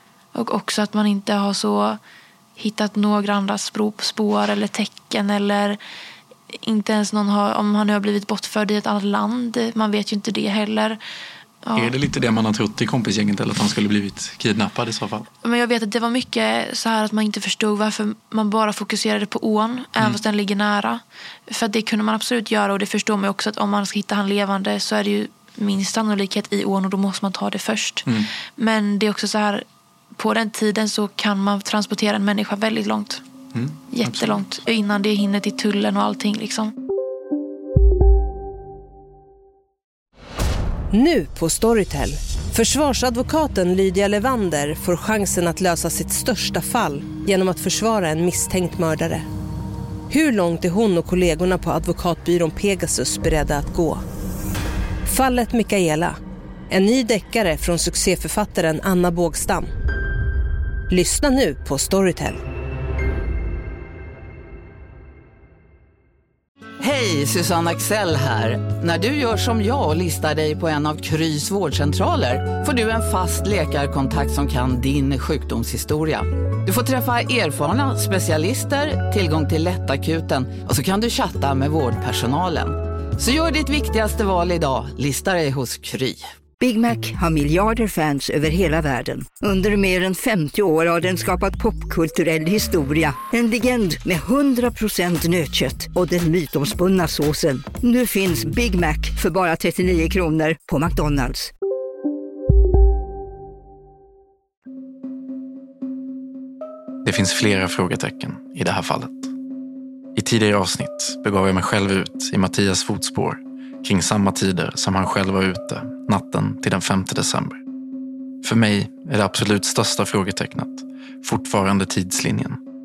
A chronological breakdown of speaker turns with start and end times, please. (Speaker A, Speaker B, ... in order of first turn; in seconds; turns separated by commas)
Speaker A: 0.3-2.0, Speaker A: 2.6-5.8, Speaker A: 6.5-11.0, Speaker A: 11.6-11.9, Speaker B: 11.8-15.3, Speaker A: 15.4-33.2, Speaker B: 33.5-34.4, Speaker A: 33.9-36.7, Speaker C: 40.9-49.2, Speaker C: 50.1-54.0, Speaker C: 55.0-56.2, Speaker C: 56.7-59.7, Speaker C: 60.9-62.4, Speaker D: 66.8-86.3, Speaker E: 86.6-101.5, Speaker F: 107.0-109.3, Speaker F: 110.1-117.6, Speaker F: 118.4-122.6